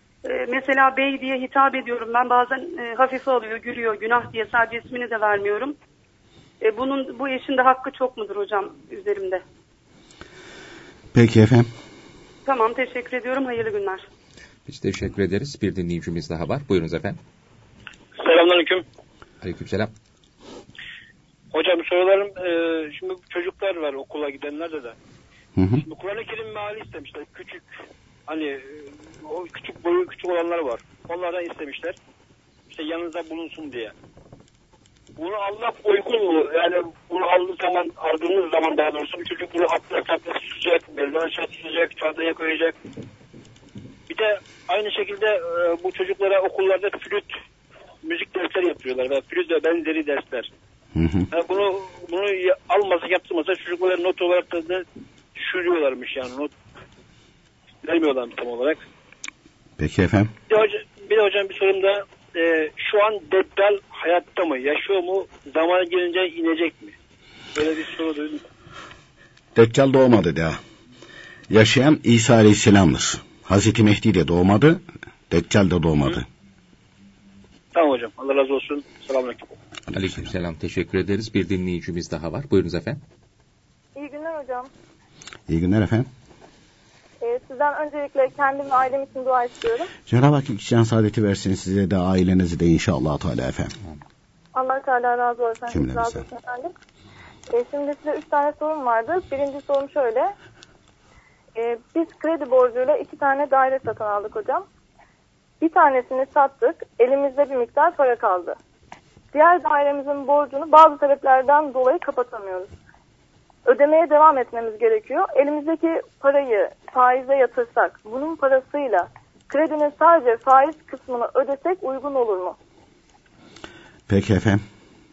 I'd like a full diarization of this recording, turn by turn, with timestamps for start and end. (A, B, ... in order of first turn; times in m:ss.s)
0:00.2-0:05.8 A
0:06.6-0:09.4 A
0:11.1-0:11.7 B
0:12.5-0:14.1 A
0:14.7-0:17.2 C
0:18.2-0:18.8 D
0:19.4-0:19.9 C
0:21.5-0:25.0 D
0:25.6-0:25.8 B
0:25.8-0:32.0 D
0:32.7-0:33.9 D
0:35.2-0:42.8 D
0:44.1-0:47.4 D
0:48.0-0:50.5 D
0:51.0-0:51.3 B
0:51.3-0:54.8 D
0:55.4-0:56.5 D
0:57.8-0:58.9 D
0:59.8-1:00.3 B
1:00.5-1:07.0 D
1:07.6-1:08.4 D
1:09.6-1:10.6 B
1:11.5-1:16.2 B
1:17.7-1:19.5 D
1:19.9-1:23.0 C
1:24.0-1:24.7 E
1:25.5-1:26.1 B
1:27.2-1:29.9 E
1:30.1-1:33.8 B
1:34.6-1:36.7 E
1:35.7-1:36.2 B
1:37.5-1:40.3 E
1:41.6-1:44.6 E
1:45.6-1:48.6 E
1:49.3-1:52.7 E
1:53.7-2:02.6 E
2:04.1-2:04.6 B